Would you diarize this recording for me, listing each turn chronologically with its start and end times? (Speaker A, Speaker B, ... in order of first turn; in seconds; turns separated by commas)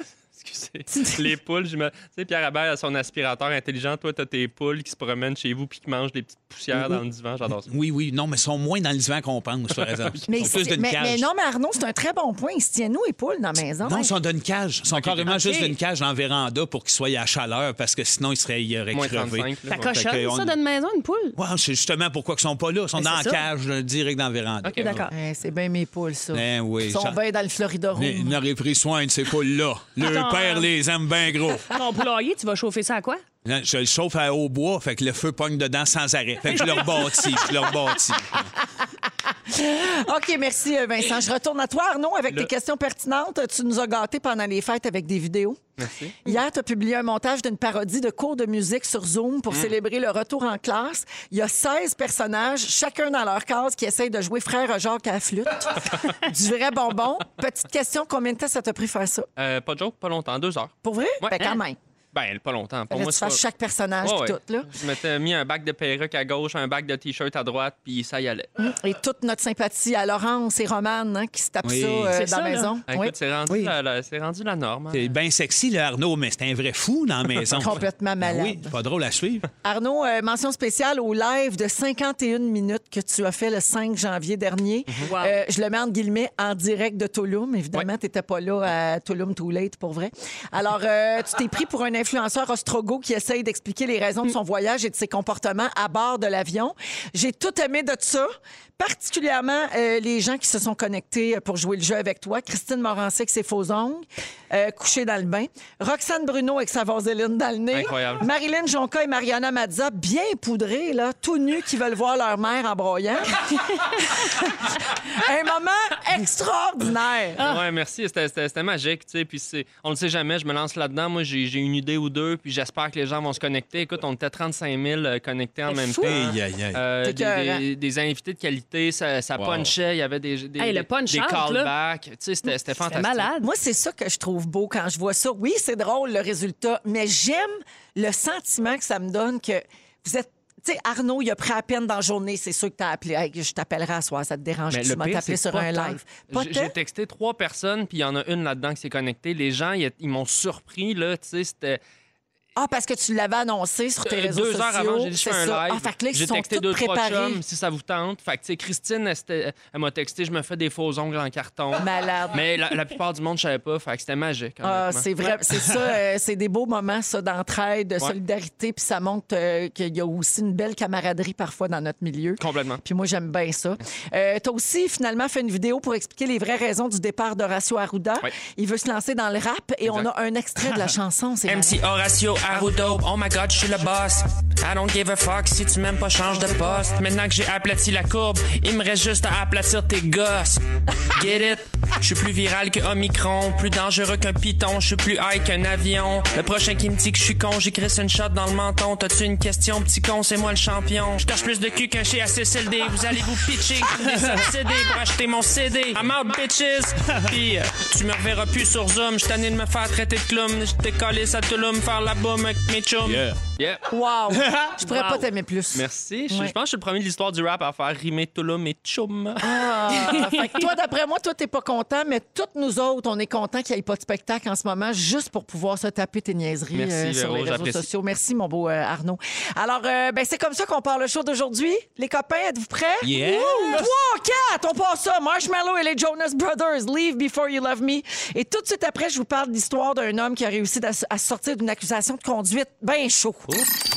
Speaker A: 0.4-7.7, Speaker B: 0.9-1.2, Speaker C: 7.7-11.3, Speaker A: 9.8-10.5, Speaker B: 10.3-14.1, Speaker C: 13.8-20.6, Speaker A: 14.9-15.3, Speaker D: 15.3-15.7, Speaker A: 18.9-19.8, Speaker D: 19.7-21.4, Speaker C: 21.4-25.1, Speaker D: 23.0-23.4, Speaker A: 24.6-24.9, Speaker D: 24.8-25.1, Speaker B: 25.1-28.4, Speaker C: 26.3-27.2, Speaker C: 27.9-31.7, Speaker D: 30.0-30.7, Speaker D: 31.7-33.2, Speaker C: 33.5-38.5, Speaker D: 36.5-37.3, Speaker B: 39.1-45.6, Speaker A: 45.8-46.2, Speaker B: 46.2-59.3, Speaker A: 59.4-61.5, Speaker B: 60.8-61.8, Speaker A: 62.1-63.4, Speaker B: 62.9-64.7, Speaker A: 64.0-68.5, Speaker B: 68.6-73.1, Speaker C: 71.6-72.2, Speaker D: 72.1-72.7, Speaker A: 72.9-75.1, Speaker C: 73.5-73.7, Speaker C: 74.9-79.5, Speaker B: 77.5-78.7, Speaker B: 79.6-117.5, Speaker D: 85.1-85.4, Speaker A: 107.7-108.3, Speaker A: 117.4-133.3, Speaker D: 125.7-126.2, Speaker C: 126.0-126.8, Speaker B: 127.0-127.6, Speaker C: 129.4-129.7, Speaker D: 130.6-131.7, Speaker D: 132.9-133.5, Speaker B: 133.4-146.7, Speaker A: 144.7-151.8, Speaker B: 152.6-157.4, Speaker A: 154.0-165.4, Speaker B: 161.8-162.4, Speaker B: 164.6-181.8, Speaker A: 172.4-172.8, Speaker E: 181.5-213.2, Speaker C: 204.1-204.4, Speaker C: 213.0-213.4, Speaker A: 213.6-213.8, Speaker B: 213.9-216.5, Speaker C: 214.3-214.8, Speaker D: 214.8-215.2, Speaker A: 215.7-219.7, Speaker B: 219.4-243.7, Speaker A: 226.7-227.8, Speaker C: 233.0-233.9